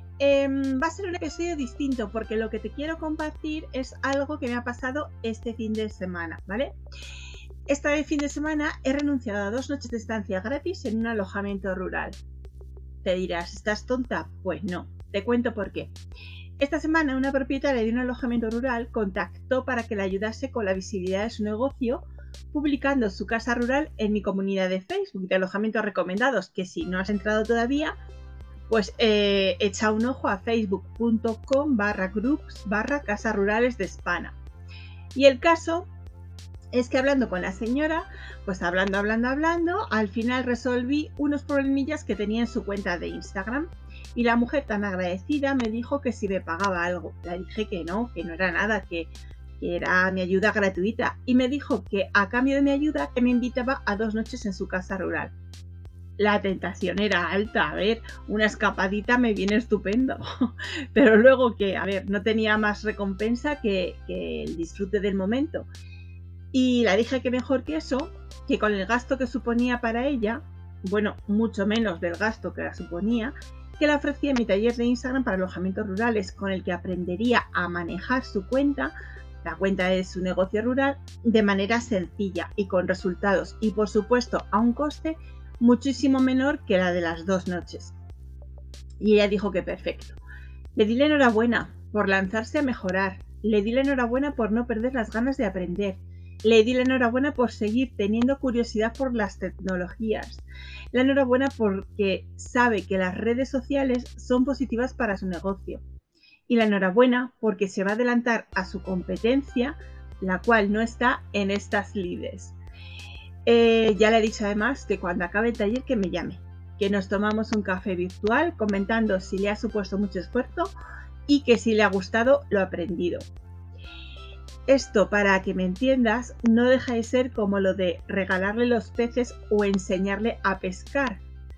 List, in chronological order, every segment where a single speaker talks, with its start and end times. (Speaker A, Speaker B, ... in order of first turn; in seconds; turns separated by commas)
Speaker A: 0.2-6.8, Speaker A: 7.7-12.2, Speaker A: 13.0-15.9, Speaker A: 16.6-27.9, Speaker A: 28.7-34.4, Speaker A: 35.1-35.9, Speaker A: 36.7-55.3, Speaker A: 56.2-65.7, Speaker A: 66.5-88.0, Speaker A: 89.0-90.2, Speaker A: 90.8-105.8, Speaker A: 106.5-112.6, Speaker A: 113.5-120.7, Speaker A: 121.3-123.2, Speaker A: 124.7-131.2